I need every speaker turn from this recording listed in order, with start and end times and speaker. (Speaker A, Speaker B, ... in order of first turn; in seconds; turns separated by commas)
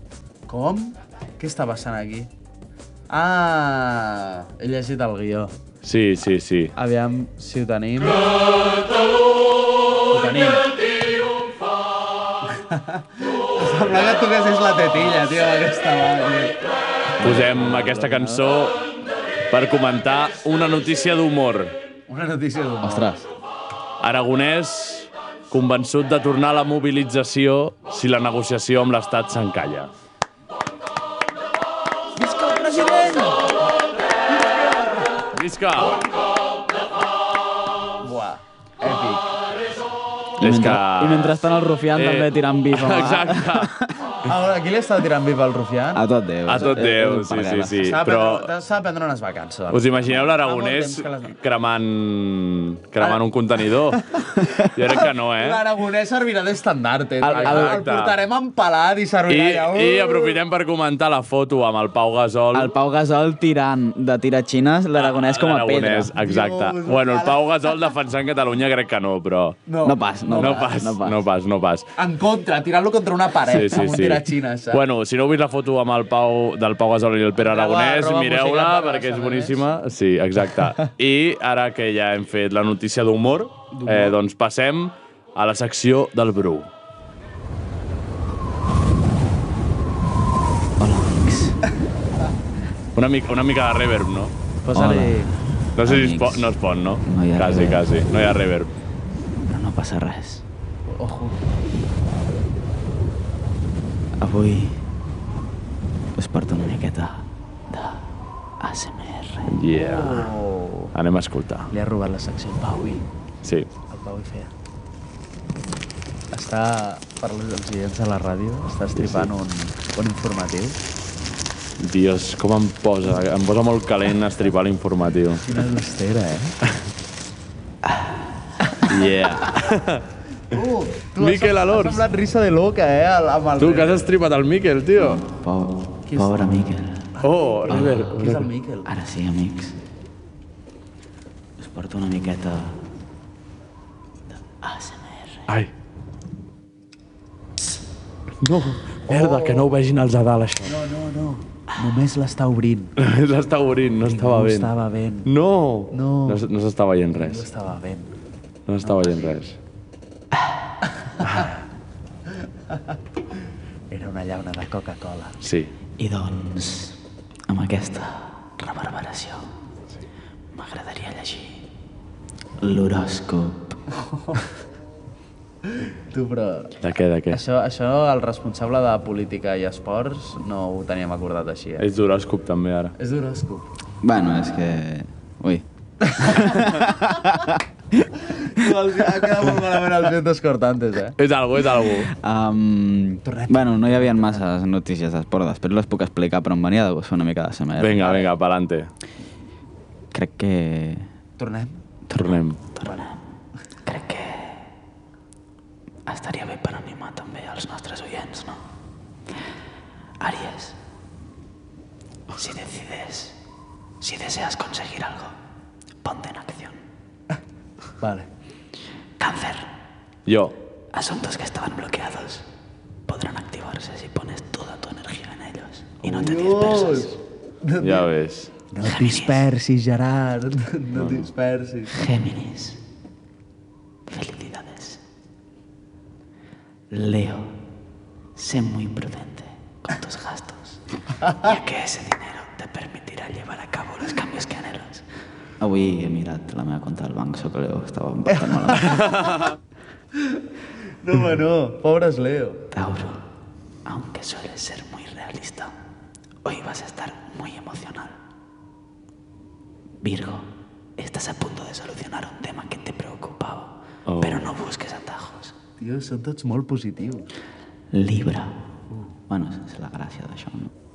Speaker A: 0.5-2.3, Speaker A: 3.1-5.5, Speaker B: 5.8-6.7, Speaker A: 6.8-8.2, Speaker A: 10.1-10.7, Speaker A: 12.5-16.6, Speaker C: 17.2-18.4, Speaker B: 17.2-18.8, Speaker B: 19.5-21.8, Speaker A: 22.1-23.1, Speaker C: 22.8-23.2, Speaker B: 24.0-29.9, Speaker A: 32.2-33.6, Speaker A: 34.3-35.1, Speaker B: 35.3-36.0, Speaker A: 38.0-39.3, Speaker C: 40.4-43.9, Speaker B: 40.4-43.7, Speaker A: 44.2-46.0, Speaker C: 46.0-47.9, Speaker B: 46.5-48.5, Speaker A: 46.6-46.8, Speaker A: 47.8-51.3, Speaker B: 49.7-54.0, Speaker A: 53.9-60.4, Speaker B: 54.7-55.6, Speaker C: 57.2-57.8, Speaker B: 57.3-58.2, Speaker B: 59.3-62.7, Speaker C: 62.5-66.1, Speaker B: 65.0-69.6, Speaker A: 66.2-67.4, Speaker A: 69.7-70.7, Speaker C: 69.8-71.2, Speaker B: 70.4-71.9, Speaker A: 72.0-74.8, Speaker B: 73.5-86.7, Speaker A: 77.4-79.6, Speaker A: 83.7-84.2, Speaker C: 90.8-91.6, Speaker B: 93.0-94.3, Speaker A: 94.7-95.3, Speaker C: 94.7-97.9, Speaker B: 95.8-98.7, Speaker C: 99.5-100.4, Speaker A: 100.9-101.4, Speaker C: 104.2-104.8, Speaker C: 106.2-108.0, Speaker C: 108.6-109.6, Speaker B: 109.5-110.3, Speaker A: 109.7-110.9, Speaker B: 110.9-111.7, Speaker A: 111.7-113.0, Speaker A: 113.9-114.5, Speaker A: 116.3-120.8, Speaker B: 119.0-119.3, Speaker B: 121.8-125.4, Speaker A: 125.4-126.5, Speaker C: 127.8-128.2, Speaker B: 128.9-130.1, Speaker A: 130.5-134.0, Speaker B: 131.2-132.0, Speaker B: 133.6-135.2, Speaker C: 135.0-137.2, Speaker A: 136.1-136.5, Speaker A: 137.2-138.9, Speaker B: 137.2-138.5, Speaker C: 137.7-138.1, Speaker C: 138.8-139.8, Speaker C: 141.6-142.8, Speaker C: 144.4-145.5, Speaker B: 148.4-150.7, Speaker A: 149.1-149.7, Speaker A: 150.6-152.9, Speaker B: 153.0-154.7, Speaker A: 154.0-155.3, Speaker B: 155.2-157.5, Speaker A: 155.9-156.4, Speaker A: 157.1-158.1, Speaker B: 158.7-159.6, Speaker A: 158.8-159.4, Speaker A: 161.2-161.5, Speaker A: 163.9-165.3, Speaker B: 165.4-165.7, Speaker C: 166.0-167.0, Speaker C: 167.5-169.5, Speaker C: 170.5-171.6, Speaker C: 172.6-173.8, Speaker A: 174.0-174.4, Speaker A: 175.7-176.7, Speaker B: 176.8-177.4, Speaker A: 177.3-181.8, Speaker B: 181.8-182.9, Speaker A: 183.0-183.7, Speaker C: 184.0-188.1, Speaker A: 186.0-187.3, Speaker A: 188.2-191.2, Speaker B: 191.2-192.1, Speaker C: 192.1-198.2, Speaker A: 193.2-194.4, Speaker B: 197.8-198.9, Speaker A: 198.0-198.3, Speaker C: 200.1-201.1, Speaker A: 201.4-201.8, Speaker C: 202.1-203.2, Speaker B: 202.2-202.6, Speaker C: 203.8-204.6, Speaker C: 206.1-208.6, Speaker C: 210.2-210.8, Speaker C: 212.3-213.4, Speaker C: 214.0-215.3, Speaker C: 216.0-216.8, Speaker A: 218.0-218.3, Speaker C: 219.2-219.7, Speaker B: 220.3-220.6, Speaker C: 220.9-222.5, Speaker C: 223.1-227.2, Speaker A: 226.0-228.1, Speaker B: 227.8-228.5, Speaker A: 228.7-231.9, Speaker C: 228.8-229.5, Speaker C: 231.9-232.8, Speaker C: 234.1-235.0, Speaker C: 236.9-237.5, Speaker C: 238.4-240.8, Speaker C: 241.3-245.1, Speaker C: 245.6-249.1, Speaker A: 248.3-249.4, Speaker B: 248.9-249.5, Speaker A: 251.0-252.6, Speaker C: 252.7-253.2, Speaker C: 253.8-255.7, Speaker C: 256.4-258.1, Speaker C: 260.0-265.5, Speaker B: 264.1-264.5, Speaker A: 265.8-267.3, Speaker C: 267.9-268.6, Speaker C: 269.3-270.7